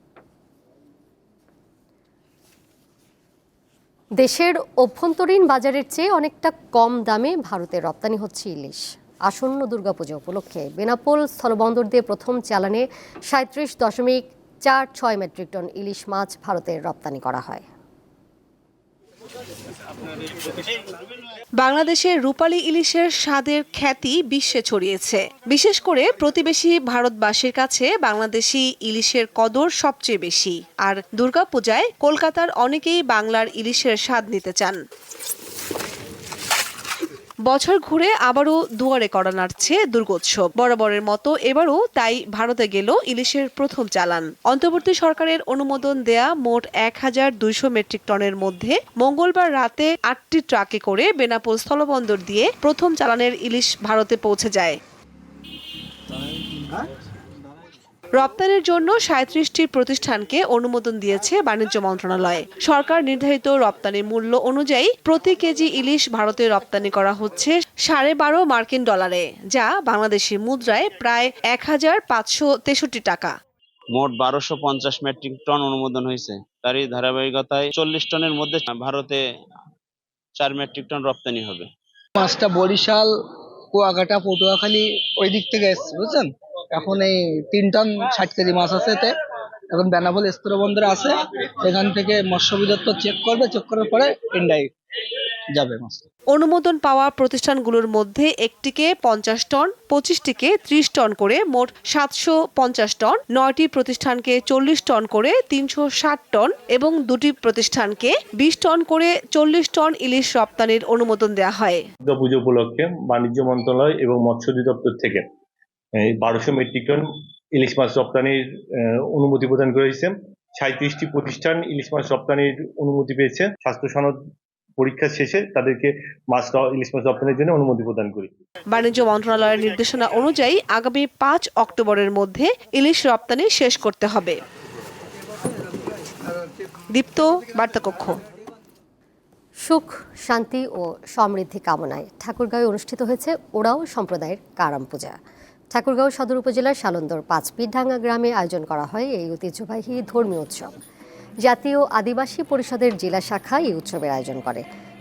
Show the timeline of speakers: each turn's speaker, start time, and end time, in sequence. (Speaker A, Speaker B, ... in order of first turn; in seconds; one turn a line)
Speaker A: 4.2-17.6
Speaker B: 21.6-34.8
Speaker B: 37.5-54.8
Speaker B: 58.1-73.3
Speaker C: 73.9-79.2
Speaker C: 80.4-81.7
Speaker D: 82.2-83.1
Speaker D: 83.7-89.2
Speaker D: 89.7-94.7
Speaker D: 95.5-96.1
Speaker B: 96.3-111.8
Speaker E: 112.1-115.3
Speaker E: 116.0-124.2
Speaker E: 124.8-128.3
Speaker B: 128.7-134.3
Speaker B: 136.9-138.2
Speaker A: 139.6-145.2
Speaker A: 145.7-150.7
Speaker A: 151.4-154.6